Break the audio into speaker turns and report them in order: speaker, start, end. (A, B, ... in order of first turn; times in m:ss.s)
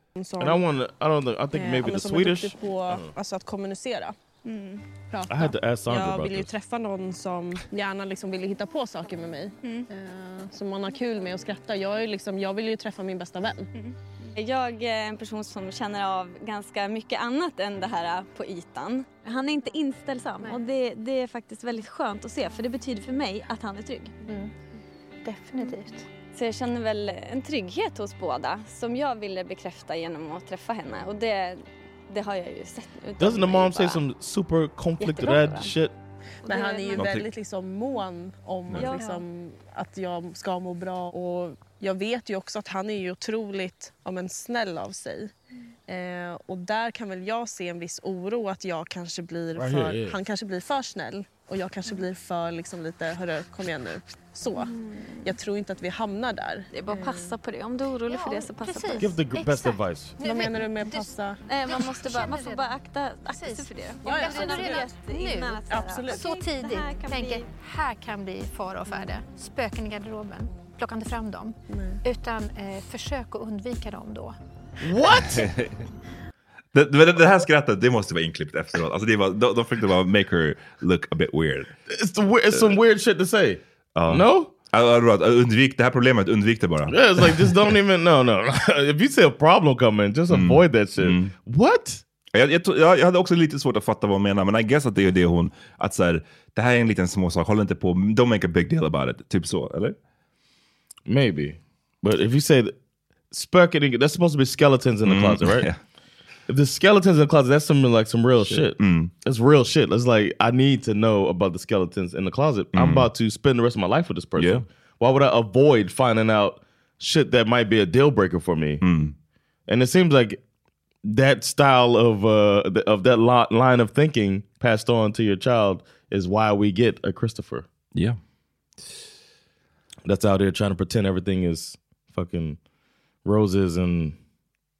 0:00.2-0:00.6 A
0:00.4-0:03.1 B
0:01.5-0:04.2 A
0:05.1-0:13.7 A
0:05.3-0:06.5 B
0:14.4-0:24.1 C
0:25.3-0:26.0 D
0:26.3-0:34.0 C
0:33.2-0:35.9 B
0:35.0-0:35.8 C
0:36.4-0:37.1 C
0:36.4-0:45.3 A
0:37.0-0:37.3 E
0:38.8-0:39.2 C
0:45.9-0:57.4 A
0:49.6-0:50.2 B
0:54.6-0:55.1 C
0:56.8-0:59.1 C
0:58.1-1:02.7 D
0:59.0-1:00.2 B
1:00.2-1:01.4 A
1:01.5-1:07.5 C
1:03.3-1:14.4 D
1:04.0-1:05.0 A
1:05.6-1:06.4 A
1:11.7-1:12.0 A
1:14.8-1:15.5 B
1:15.4-1:15.8 E
1:16.7-1:21.7 E
1:21.9-1:24.5 B
1:24.0-1:27.6 E
1:26.9-1:32.0 B
1:30.3-1:31.3 E
1:32.3-1:40.0 E
1:41.1-1:42.8 B
1:43.3-1:45.7 B
1:45.0-1:45.8 E
1:46.5-1:58.8 B
1:48.4-1:49.1 E
1:52.7-1:53.1 E
1:54.4-1:54.6 E
1:58.8-1:59.1 E
1:59.7-2:00.4 B
2:01.0-2:07.7 B
2:10.1-2:12.6 B
2:13.2-2:14.2 B